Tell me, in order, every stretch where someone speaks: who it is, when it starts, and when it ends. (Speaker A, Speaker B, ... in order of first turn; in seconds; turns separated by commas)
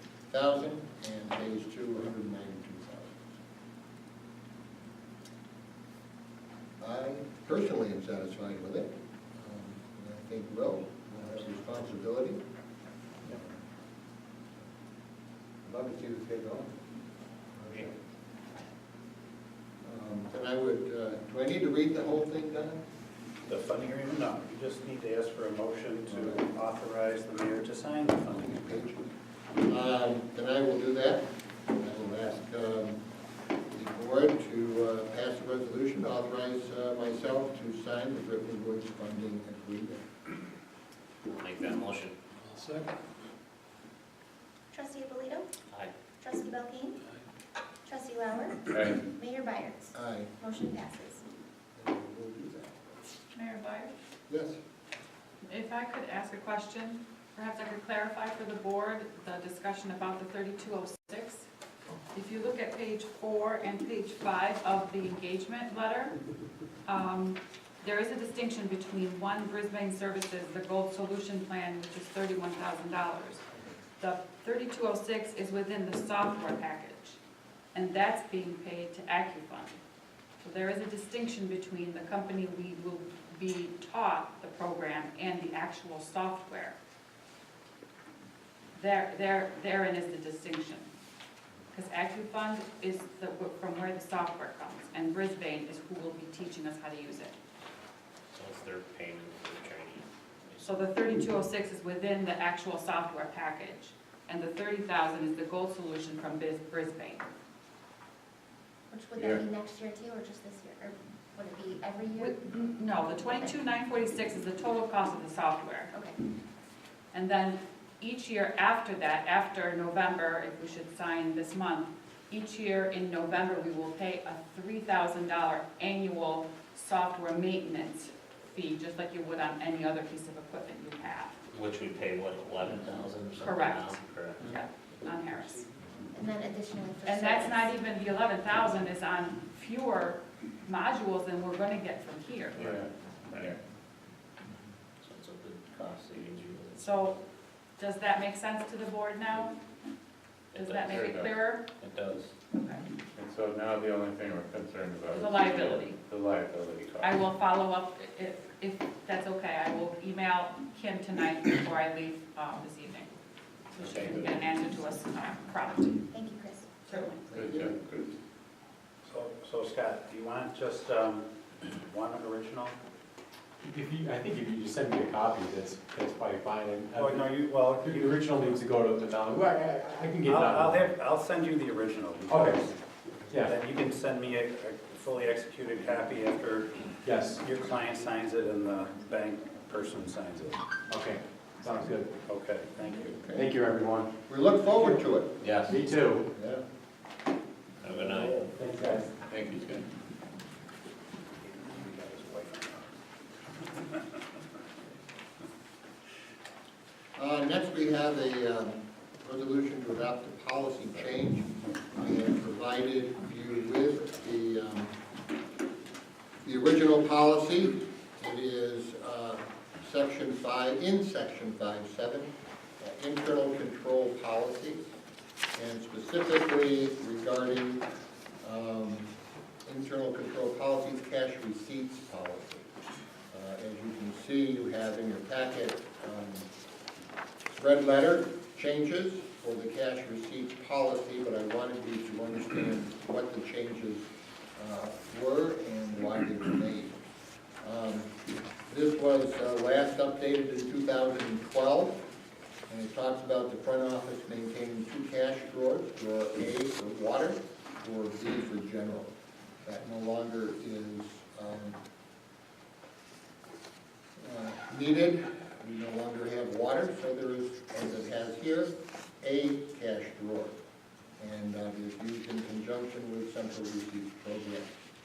Speaker A: 0.3-3.3, Speaker A: 6.8-12.4, Speaker A: 15.6-16.7, Speaker A: 17.6-18.0, Speaker A: 19.8-22.8, Speaker B: 23.4-28.5, Speaker A: 26.1-26.4, Speaker A: 28.3-29.1, Speaker A: 29.6-33.0, Speaker A: 33.7-40.0, Speaker C: 41.3-42.1, Speaker D: 42.5-42.8, Speaker E: 44.7-45.5, Speaker E: 46.2-47.0, Speaker E: 47.9-51.2, Speaker F: 48.7-49.0, Speaker A: 49.9-50.3, Speaker A: 51.8-52.8, Speaker G: 53.3-53.9, Speaker A: 54.3-54.6, Speaker G: 55.4-61.5, Speaker G: 62.1-66.2, Speaker G: 66.8-73.4, Speaker G: 74.0-77.2, Speaker G: 77.7-79.8, Speaker G: 80.4-86.8, Speaker G: 88.7-90.9, Speaker G: 91.7-97.3, Speaker C: 98.3-100.7, Speaker G: 100.6-107.2, Speaker E: 108.9-112.5, Speaker G: 112.2-115.9, Speaker E: 113.2-113.5, Speaker E: 115.9-116.2, Speaker G: 117.1-131.3, Speaker C: 131.5-134.5, Speaker G: 133.4-135.7, Speaker E: 136.1-137.7, Speaker G: 137.0-142.6, Speaker F: 142.6-143.6, Speaker C: 145.0-147.1, Speaker G: 146.7-147.2, Speaker G: 147.8-149.6, Speaker C: 150.5-152.3, Speaker G: 150.5-151.6, Speaker F: 150.9-151.3, Speaker G: 152.5-152.8, Speaker F: 153.2-157.2, Speaker G: 155.1-156.0, Speaker C: 155.1-155.8, Speaker G: 157.0-163.1, Speaker G: 163.7-166.0, Speaker C: 163.8-164.1, Speaker E: 166.1-166.7, Speaker G: 166.8-167.4, Speaker F: 167.3-168.2, Speaker B: 169.0-172.8, Speaker D: 173.6-180.9, Speaker B: 176.9-178.2, Speaker B: 180.2-182.7, Speaker D: 182.3-182.6, Speaker D: 183.3-183.5, Speaker B: 183.4-186.7, Speaker D: 187.0-187.4, Speaker B: 187.4-190.6, Speaker D: 190.9-192.1, Speaker B: 192.3-193.2, Speaker A: 193.1-193.5, Speaker D: 193.3-194.1, Speaker A: 194.3-195.4, Speaker C: 195.4-195.8, Speaker D: 195.7-196.3, Speaker A: 196.3-196.6, Speaker C: 197.8-198.5, Speaker A: 197.8-198.5, Speaker D: 198.5-199.1, Speaker C: 199.2-199.9, Speaker B: 201.4-202.8, Speaker A: 207.2-215.0, Speaker A: 216.4-224.9, Speaker A: 225.5-227.8, Speaker A: 228.4-229.1, Speaker A: 229.7-232.7, Speaker A: 233.3-236.5, Speaker A: 237.4-247.0, Speaker A: 247.6-248.1, Speaker A: 248.7-252.1, Speaker A: 252.7-259.1, Speaker A: 259.6-261.8, Speaker A: 264.2-270.6, Speaker A: 271.2-274.7